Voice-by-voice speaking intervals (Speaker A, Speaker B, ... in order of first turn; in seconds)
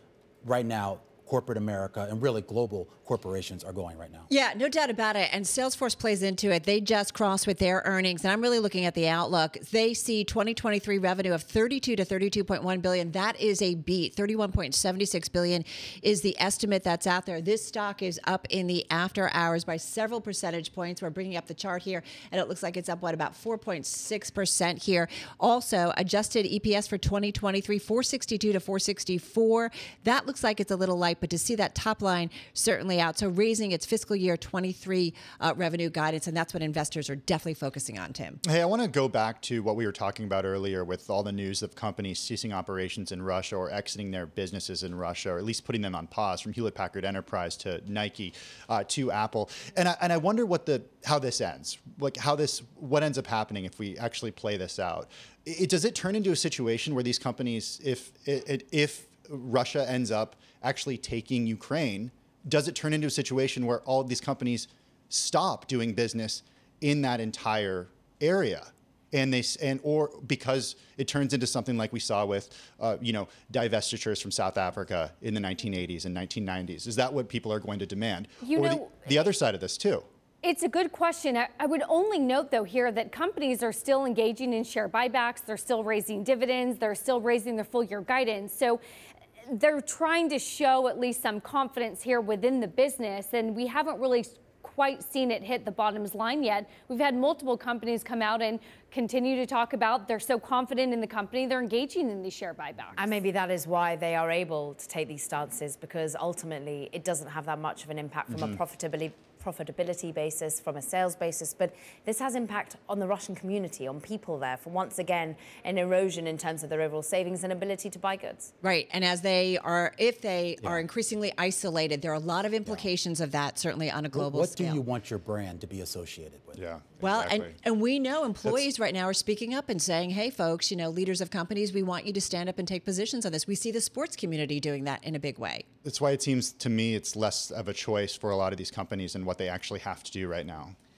Speaker A: 0.4-4.3, 124.1-126.6
Speaker B: 4.3-38.4, 118.6-124.8, 127.0-135.7
Speaker C: 38.5-80.0, 108.3-108.6, 126.6-127.5, 135.8-140.8
Speaker D: 78.4-78.9, 80.4-88.8, 89.5-103.2
Speaker E: 103.0-118.5